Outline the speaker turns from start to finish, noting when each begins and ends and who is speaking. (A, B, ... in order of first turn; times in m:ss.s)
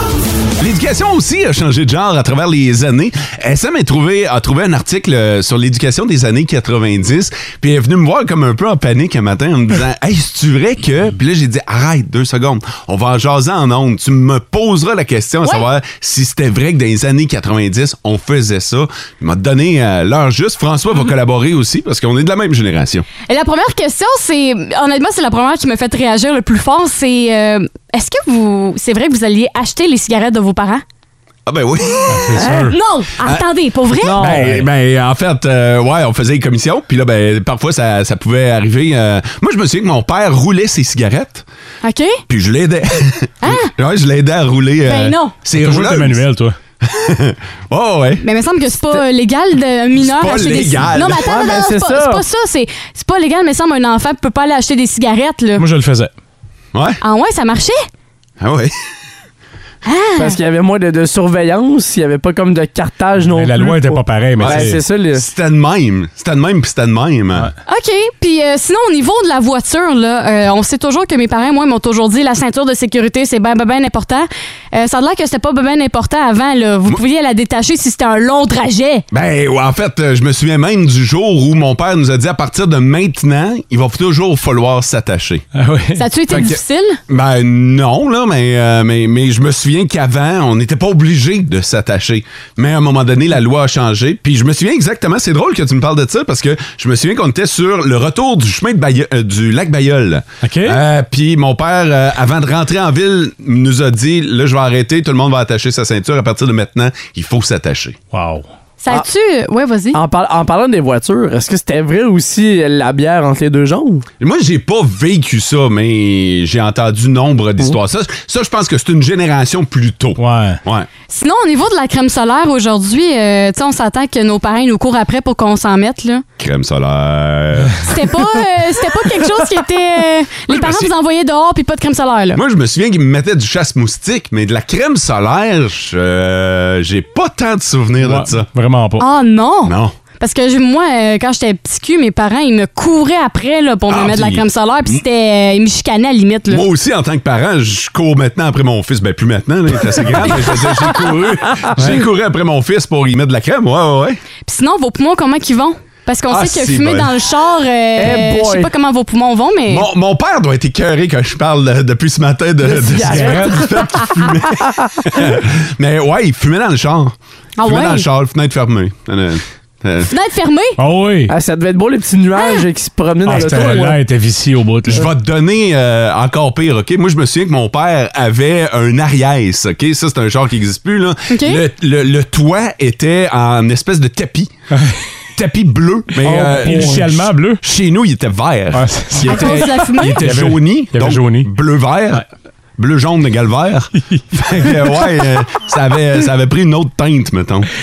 0:00.6-0:23.1 A
0:23.2-0:30.8 B
0:31.4-0:32.5 A
0:32.1-0:32.8 C
0:32.4-0:32.7 D
0:32.7-0:34.3 B
0:34.0-0:34.5 D
0:34.1-0:41.4 A
0:34.2-0:34.7 C
0:41.8-0:42.2 B
0:42.3-0:46.2 A
0:43.4-0:43.7 B
0:44.8-0:45.3 B
0:45.5-0:46.6 C
0:46.8-0:49.0 A
0:48.2-0:55.6 B
0:50.0-0:51.5 A
0:51.1-0:52.2 D
0:55.6-0:56.1 C
0:56.7-0:57.0 A
0:57.0-0:57.8 B
0:58.4-0:58.7 A
0:59.8-1:00.4 B
1:00.2-1:05.2 D
1:03.2-1:04.8 C
1:04.4-1:07.5 A
1:07.6-1:19.0 B
1:19.1-1:25.4 A
1:25.5-1:26.0 C
1:26.0-1:27.0 B
1:26.3-1:48.0 A
1:40.4-1:40.8 C
1:48.1-1:48.4 C
1:48.8-1:50.0 B
1:49.9-1:54.0 D
1:54.2-2:00.9 A
2:00.2-2:00.6 C
2:01.1-2:06.2 B
2:06.4-2:08.0 A
2:07.8-2:12.4 B
2:10.5-2:10.9 A
2:12.3-2:18.5 A
2:18.0-2:19.0 C
2:19.0-2:26.7 B
2:19.6-2:20.0 A
2:23.9-2:25.0 A
2:26.5-2:34.2 A
2:34.4-2:39.9 B
2:36.3-2:37.2 A
2:38.0-2:38.7 D
2:39.7-2:50.1 A
2:42.6-2:45.0 D
2:43.0-2:43.7 C
2:47.6-2:48.0 B
2:50.1-2:50.8 B
2:50.8-2:51.3 C
2:51.3-2:54.0 D
2:52.4-2:52.6 B
2:53.2-2:55.0 C
2:54.9-3:04.5 A
3:01.3-3:01.6 B
3:04.7-3:05.0 C
3:05.3-3:12.2 A
3:06.2-3:07.6 C
3:06.3-3:06.9 D
3:08.7-3:11.5 C
3:09.2-3:10.3 B
3:12.8-3:17.7 A